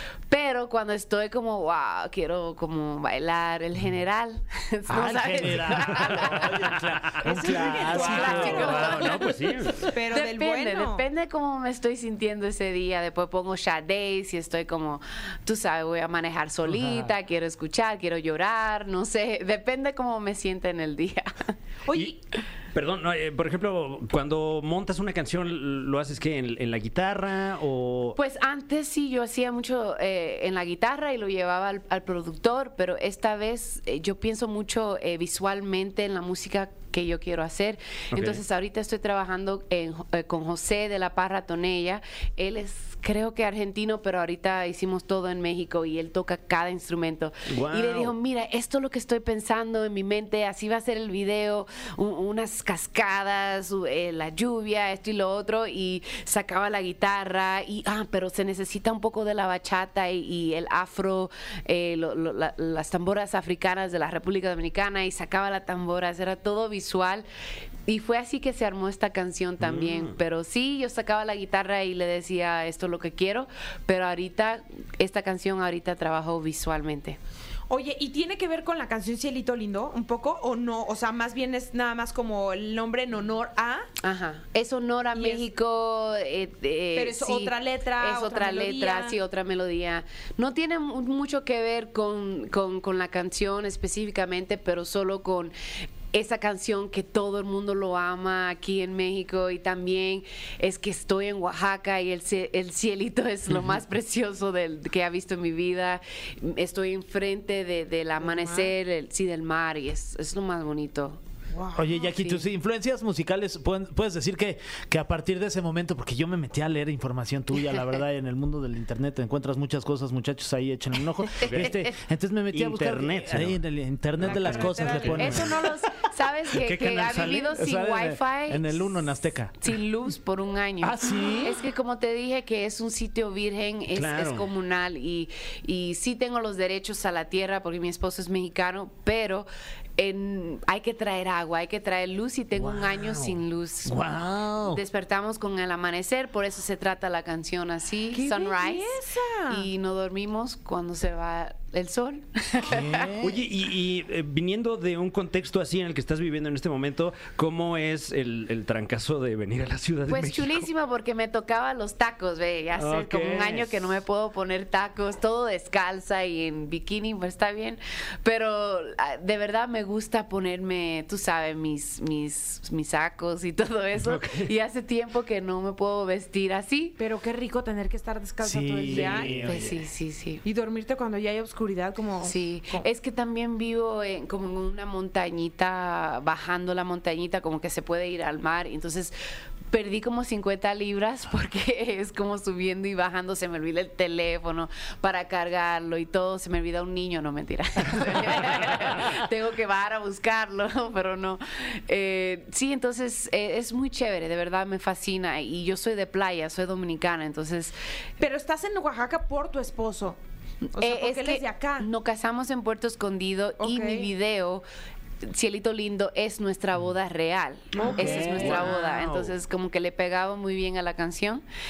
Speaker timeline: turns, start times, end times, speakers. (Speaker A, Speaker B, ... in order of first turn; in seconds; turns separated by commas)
Speaker A: 0.3-6.7, Speaker B: 4.9-9.3, Speaker C: 6.6-9.9, Speaker D: 7.2-9.3, Speaker A: 7.4-9.3, Speaker D: 9.8-11.0, Speaker A: 10.1-21.5, Speaker B: 16.6-17.1, Speaker D: 21.8-22.2, Speaker C: 22.7-28.2, Speaker A: 28.1-67.2, Speaker C: 38.1-38.4, Speaker C: 47.5-48.1, Speaker A: 67.8-77.2, Speaker C: 69.6-70.2, Speaker D: 77.7-83.9, Speaker A: 84.0-95.5, Speaker D: 85.1-85.4, Speaker D: 87.0-89.2, Speaker A: 96.1-111.2, Speaker D: 108.2-108.7, Speaker D: 111.5-112.1, Speaker B: 111.7-125.7, Speaker A: 112.1-112.4, Speaker C: 121.4-121.8, Speaker A: 121.4-121.7, Speaker C: 122.5-123.6, Speaker C: 124.2-125.5, Speaker D: 124.2-125.5, Speaker A: 125.1-129.0, Speaker C: 126.5-127.5, Speaker B: 127.1-129.7, Speaker A: 129.6-144.0, Speaker B: 130.8-131.6, Speaker C: 133.9-134.5, Speaker C: 142.6-143.4, Speaker B: 143.8-144.8, Speaker A: 144.6-148.9, Speaker D: 148.1-149.7, Speaker A: 149.5-153.1, Speaker B: 152.6-153.4, Speaker C: 153.2-160.7, Speaker A: 160.1-177.0, Speaker C: 162.8-163.8, Speaker C: 174.0-174.5, Speaker D: 177.0-179.6, Speaker B: 178.4-179.7, Speaker C: 178.9-179.7, Speaker A: 179.4-180.4, Speaker D: 180.4-182.8, Speaker A: 182.2-189.1, Speaker A: 189.7-207.8, Speaker D: 208.2-210.2, Speaker A: 210.6-214.6, Speaker D: 210.8-211.9, Speaker D: 213.6-214.1, Speaker A: 215.2-221.4, Speaker D: 217.8-218.7, Speaker B: 217.9-218.7, Speaker C: 217.9-219.3